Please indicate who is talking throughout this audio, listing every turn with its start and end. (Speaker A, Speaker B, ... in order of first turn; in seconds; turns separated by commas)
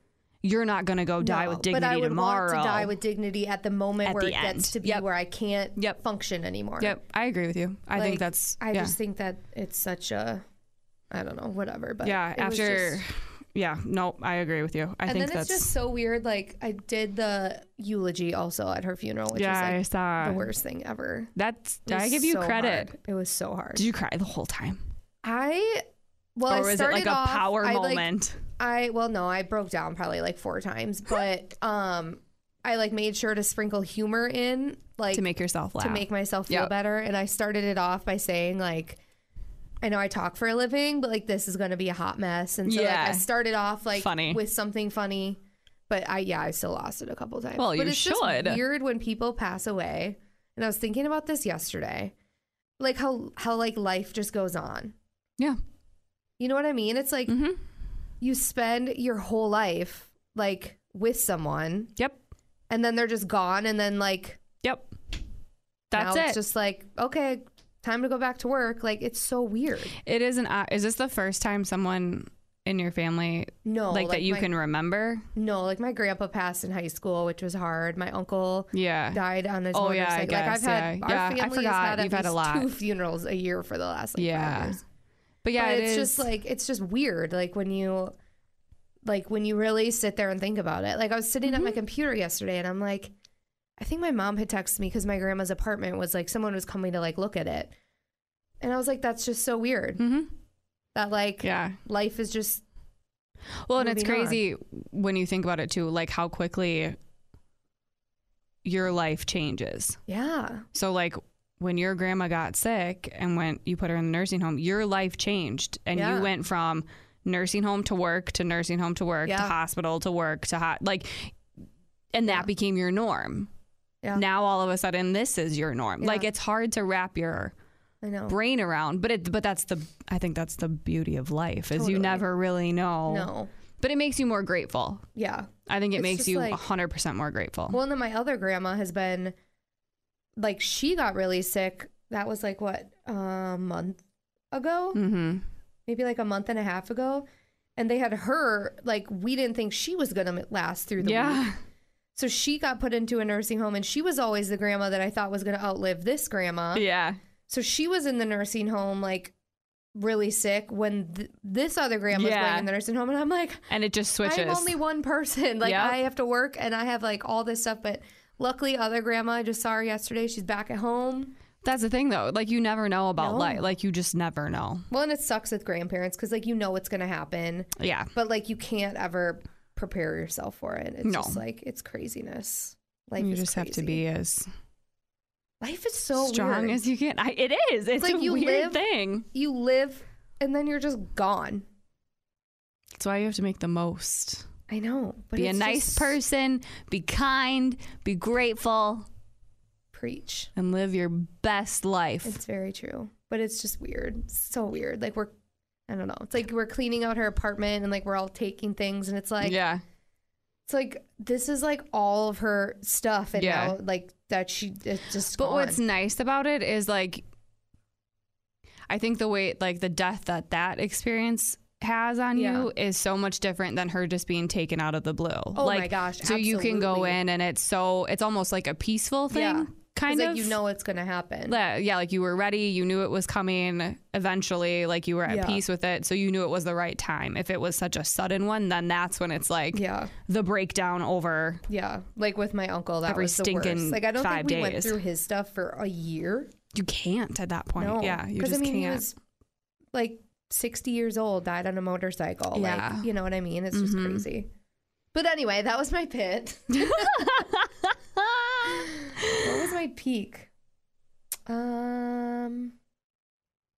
Speaker A: 0.4-2.9, Speaker B: 1.2-7.0, Speaker A: 4.0-5.0, Speaker A: 6.8-8.9, Speaker B: 7.9-10.4, Speaker B: 11.1-13.0, Speaker A: 12.0-15.7, Speaker B: 15.1-21.3, Speaker A: 19.3-20.4, Speaker A: 21.4-22.9, Speaker B: 21.9-23.9, Speaker A: 23.7-24.8, Speaker B: 25.2-35.2, Speaker A: 26.5-28.4, Speaker A: 35.1-36.7, Speaker B: 35.8-39.0, Speaker B: 39.8-52.1, Speaker A: 42.6-43.2, Speaker A: 43.9-44.4, Speaker A: 47.6-48.6, Speaker B: 52.8-54.9, Speaker B: 56.4-57.4, Speaker A: 57.3-57.6, Speaker B: 58.2-61.9, Speaker B: 62.7-64.4, Speaker A: 64.6-64.9, Speaker A: 65.9-66.4, Speaker B: 65.9-70.0, Speaker A: 70.0-75.2, Speaker B: 73.6-74.5, Speaker B: 75.3-84.8, Speaker A: 78.7-79.2, Speaker A: 79.7-82.7, Speaker A: 84.2-84.8, Speaker A: 85.4-86.2, Speaker B: 85.5-88.1, Speaker B: 89.0-93.1, Speaker A: 91.5-91.8, Speaker B: 93.8-97.7, Speaker B: 98.6-100.0, Speaker A: 100.0-100.3, Speaker B: 100.9-102.6, Speaker A: 101.4-101.8, Speaker A: 103.7-107.0, Speaker B: 103.8-104.4, Speaker A: 108.6-110.0, Speaker B: 110.1-110.6, Speaker A: 110.7-121.3, Speaker B: 115.9-116.3, Speaker B: 119.2-119.5, Speaker A: 122.1-123.5, Speaker A: 124.1-127.5, Speaker B: 126.0-126.3, Speaker B: 128.0-128.3, Speaker A: 128.3-135.1, Speaker B: 131.7-132.2, Speaker B: 133.1-133.5, Speaker B: 135.2-136.6, Speaker A: 135.7-137.8, Speaker B: 137.7-139.3, Speaker B: 140.4-144.0, Speaker B: 144.5-145.0, Speaker A: 144.9-145.4, Speaker B: 145.8-147.2, Speaker B: 147.8-151.5, Speaker A: 151.0-151.6, Speaker B: 152.1-156.8, Speaker A: 156.7-157.2, Speaker B: 157.5-159.3, Speaker B: 159.9-163.7, Speaker A: 162.1-162.7, Speaker A: 163.7-164.8, Speaker B: 164.2-171.3, Speaker A: 165.6-166.0, Speaker A: 171.6-174.8, Speaker B: 173.2-173.6, Speaker B: 174.9-184.0, Speaker A: 177.8-178.1, Speaker A: 181.0-181.4, Speaker A: 183.2-184.5, Speaker B: 185.6-186.8, Speaker A: 186.2-189.3, Speaker B: 188.0-191.6, Speaker A: 192.9-194.4, Speaker B: 194.7-196.2, Speaker A: 195.3-199.1, Speaker B: 199.9-200.5, Speaker A: 200.6-202.4, Speaker B: 202.2-205.3, Speaker B: 205.9-209.6, Speaker A: 209.4-209.8, Speaker B: 210.7-215.8, Speaker A: 213.3-213.8, Speaker A: 215.3-217.2, Speaker A: 218.9-230.6, Speaker B: 222.3-222.7, Speaker B: 225.5-227.2, Speaker B: 229.3-231.6, Speaker A: 231.5-241.6, Speaker B: 235.2-235.6, Speaker B: 239.7-240.1, Speaker B: 241.7-246.5, Speaker A: 243.1-245.0, Speaker A: 246.7-249.0, Speaker B: 247.8-249.2, Speaker B: 249.9-254.5, Speaker A: 252.5-253.1, Speaker A: 253.7-254.2, Speaker B: 255.1-257.5, Speaker A: 256.7-259.5, Speaker B: 258.6-260.5, Speaker B: 261.5-262.7